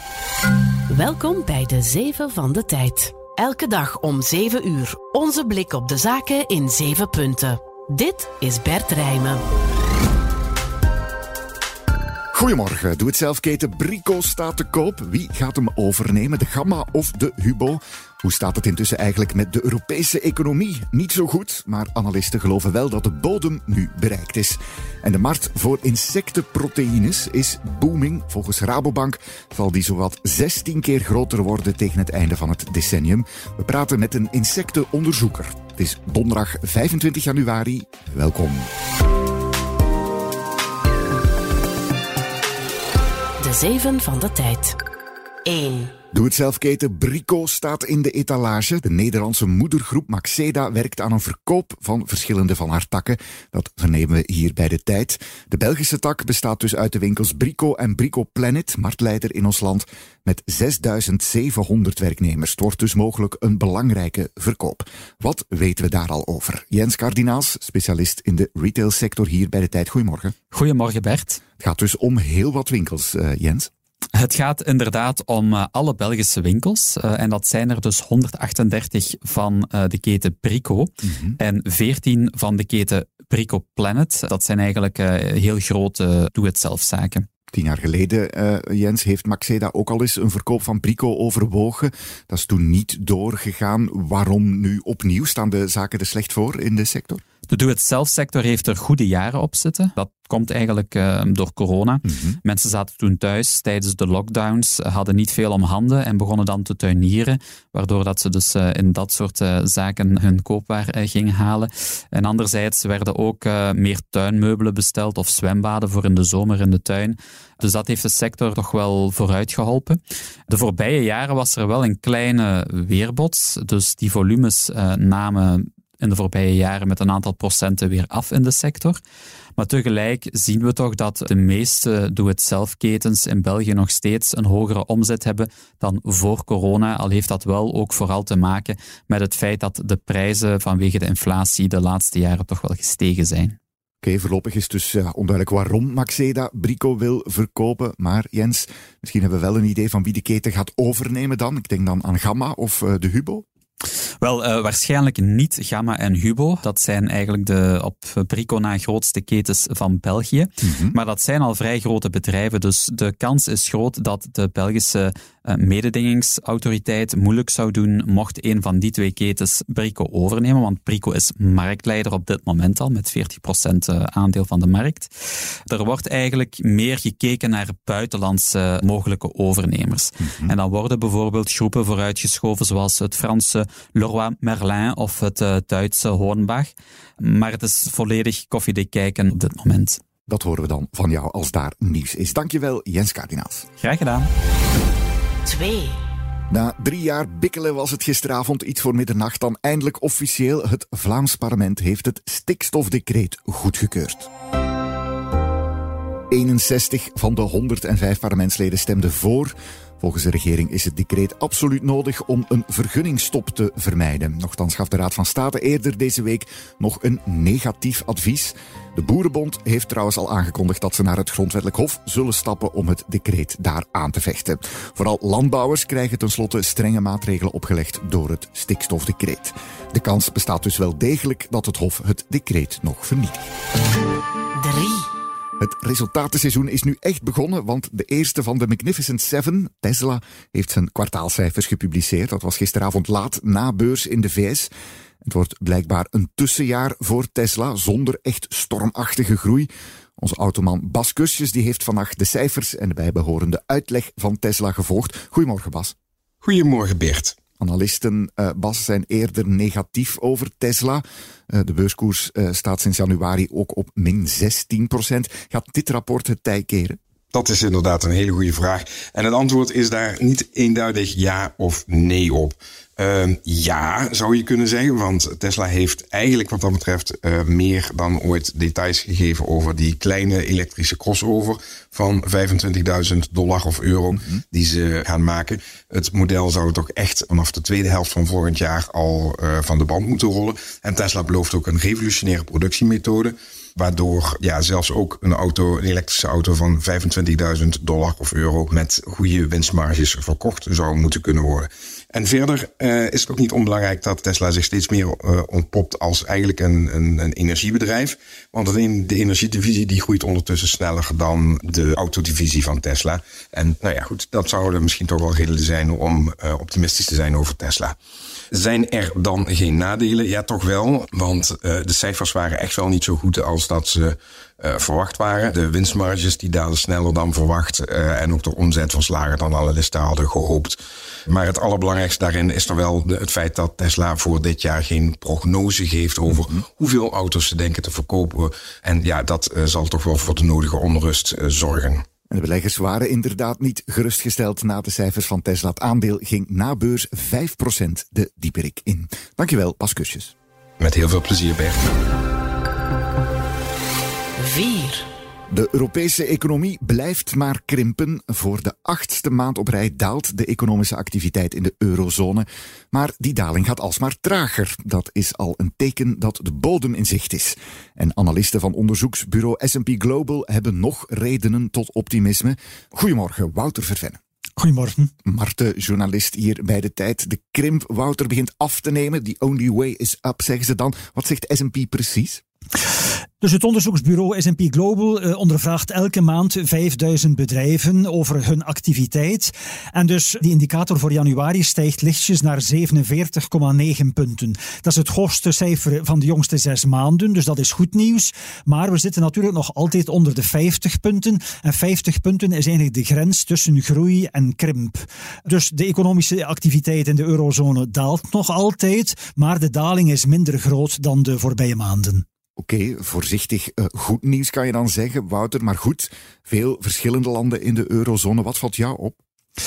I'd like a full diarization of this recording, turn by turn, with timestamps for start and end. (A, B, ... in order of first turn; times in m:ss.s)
0:00.9-0:09.4 A
0:12.3-0:38.7 B
0:43.4-0:44.8 A
0:45.4-0:45.9 A
0:46.1-1:10.3 B
1:10.5-1:11.4 C
1:11.6-1:13.7 B
1:14.2-1:27.2 C
1:21.0-1:21.4 B
1:27.5-1:37.2 B
1:37.5-2:09.0 C
1:42.0-1:42.4 B
2:09.6-2:23.6 C
2:24.0-2:33.4 B
2:34.2-2:55.1 C
2:40.6-2:41.0 B
2:55.7-3:10.0 C
3:00.2-3:00.6 B
3:10.3-3:13.7 B
3:13.8-3:14.3 C
3:15.4-3:16.0 A
3:16.5-3:24.3 B
3:26.3-3:53.5 B
3:54.6-3:55.1 A
3:55.6-4:04.7 B
4:05.2-4:15.9 B
4:16.4-4:17.4 D
4:17.6-4:27.0 B
4:27.3-5:18.0 D
5:18.5-5:30.8 D
5:31.3-5:42.0 D
5:36.3-5:36.6 B
5:42.3-5:50.3 B
5:50.8-5:51.9 D
5:54.4-5:55.1 A
5:55.5-6:14.2 B
6:14.6-6:15.1 E
6:15.2-6:22.4 B
6:23.4-6:52.2 E
6:52.6-6:59.2 B